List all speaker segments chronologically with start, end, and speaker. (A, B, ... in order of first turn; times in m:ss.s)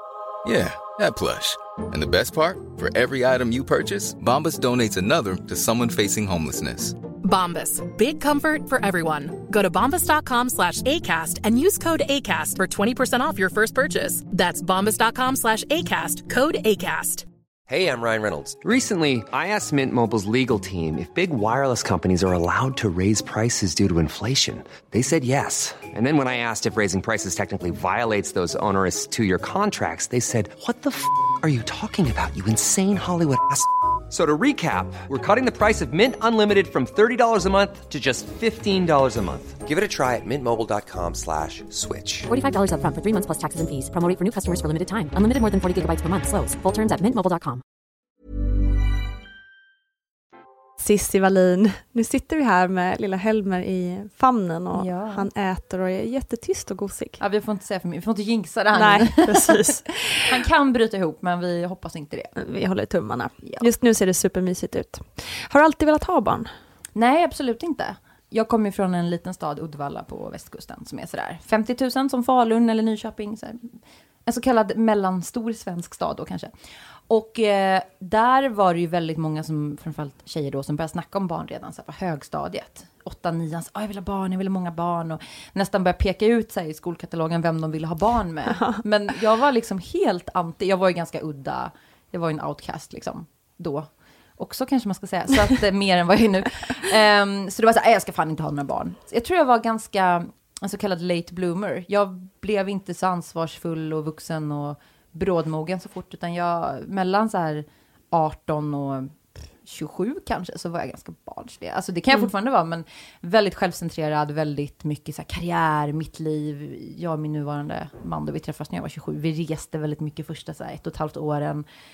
0:00.4-0:07.0 A
0:07.2-0:17.2 B
0:17.7-0:42.3 C
0:42.3-0:47.6 D
0:50.8-0:57.2 E
0:54.7-0:55.3 F
0:57.2-1:02.3 F
0:58.7-1:00.2 E
1:02.4-1:06.5 E
1:06.9-1:16.5 F
1:17.1-2:01.6 F
1:28.5-1:28.8 E